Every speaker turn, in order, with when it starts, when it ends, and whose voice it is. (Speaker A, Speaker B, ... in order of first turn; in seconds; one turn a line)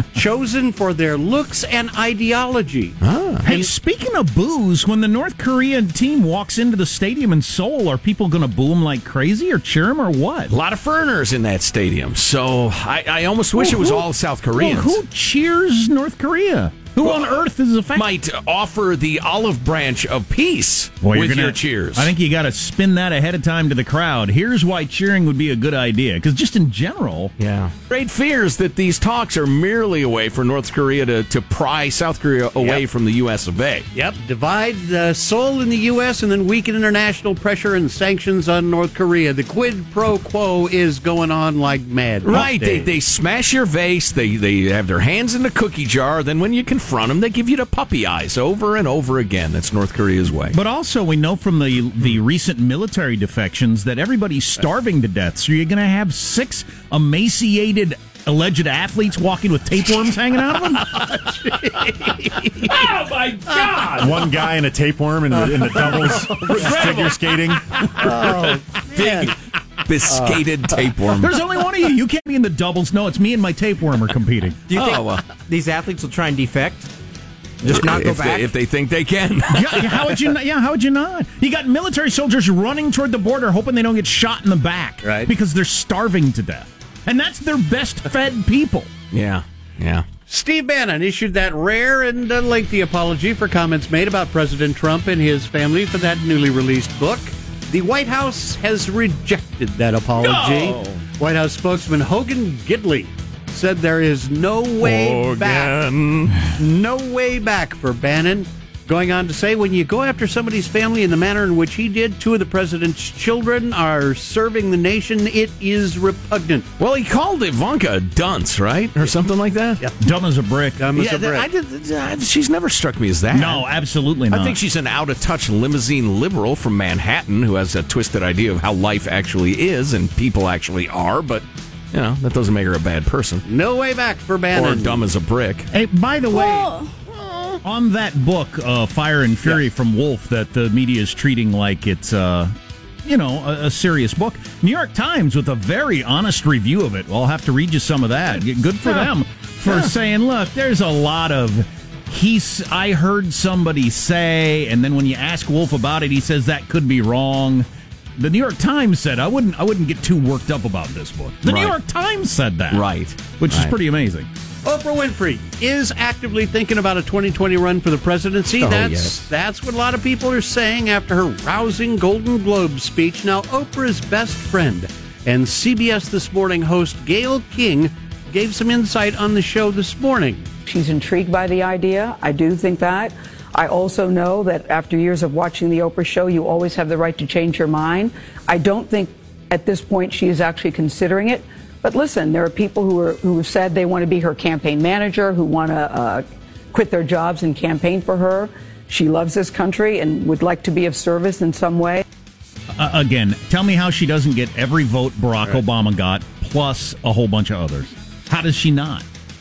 Speaker A: 0.1-3.6
Speaker B: 3.0-3.5
Speaker C: 3.4-10.5
Speaker B: 10.5-15.0
Speaker C: 13.6-18.1
Speaker B: 17.0-17.3
Speaker B: 17.9-22.1
Speaker C: 21.0-27.3
Speaker B: 27.4-33.9
Speaker A: 33.9-42.9
Speaker B: 42.2-50.6
Speaker C: 50.5-61.0
Speaker A: 60.9-62.8
Speaker B: 62.8-64.0
Speaker A: 63.5-64.0
Speaker D: 64.0-67.8
Speaker A: 66.2-66.5
Speaker B: 66.3-67.4
Speaker A: 68.0-69.3
Speaker B: 68.9-71.4
Speaker C: 71.1-74.6
Speaker E: 74.7-76.9
Speaker B: 74.7-75.2
Speaker E: 77.6-78.5
Speaker B: 77.7-80.2
Speaker C: 79.5-88.9
Speaker B: 89.1-90.0
Speaker A: 90.3-105.8
Speaker C: 100.2-100.8
Speaker B: 104.8-106.4
Speaker A: 106.5-116.7
Speaker B: 116.8-119.8
Speaker C: 120.0-120.8
Speaker A: 120.8-121.5
Speaker B: 121.0-123.7
Speaker C: 123.3-124.6
Speaker B: 124.3-133.4
Speaker A: 133.5-135.0
Speaker B: 134.5-135.7
Speaker C: 135.7-136.9
Speaker C: 137.5-162.9
Speaker B: 161.4-161.8
Speaker B: 162.7-163.7
Speaker C: 163.4-164.3
Speaker A: 164.7-180.5
Speaker B: 168.6-169.3
Speaker F: 180.7-202.1
Speaker C: 202.8-209.1